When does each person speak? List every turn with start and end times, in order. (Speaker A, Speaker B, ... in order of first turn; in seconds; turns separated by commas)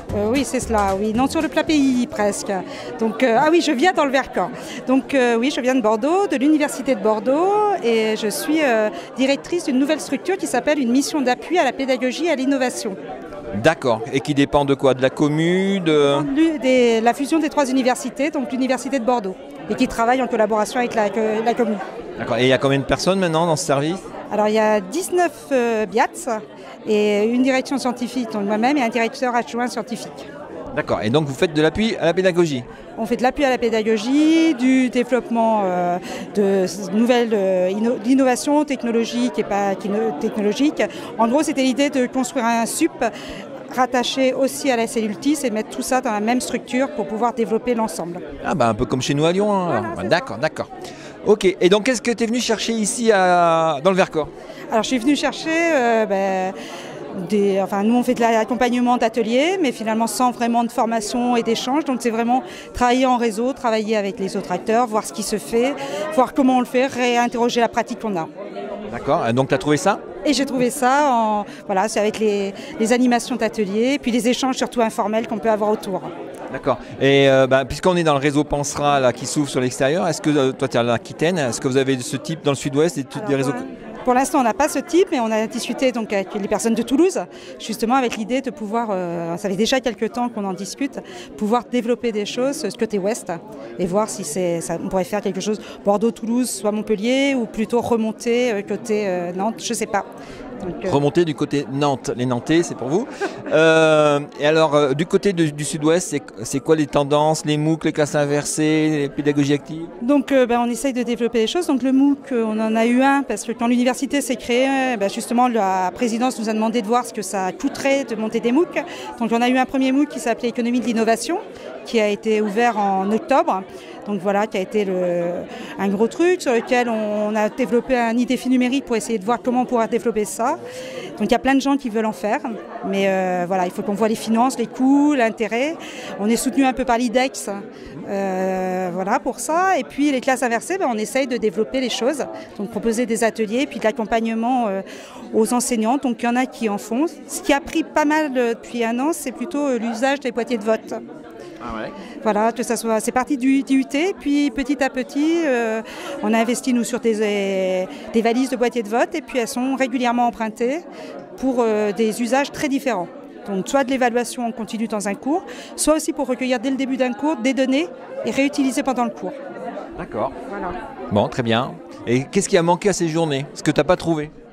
Speaker A: 0.1-13.0, Speaker B: 13.6-16.3, Speaker A: 16.0-21.8, Speaker B: 22.2-24.0, Speaker A: 24.3-30.3, Speaker B: 30.7-32.6, Speaker A: 33.0-43.1, Speaker A: 43.7-48.2, Speaker B: 48.4-50.7, Speaker A: 49.7-50.3, Speaker B: 51.2-54.3, Speaker A: 54.7-56.5, Speaker A: 57.1-68.3, Speaker B: 68.9-70.0, Speaker A: 70.2-76.1, Speaker B: 76.5-83.6, Speaker A: 83.1-100.0, Speaker A: 100.6-101.0, Speaker B: 100.8-109.9, Speaker A: 110.0-130.6, Speaker A: 131.2-151.0, Speaker B: 151.6-151.9, Speaker A: 152.2-160.8, Speaker A: 161.3-169.3, Speaker B: 170.0-170.3, Speaker A: 170.5-170.7, Speaker B: 171.1-174.3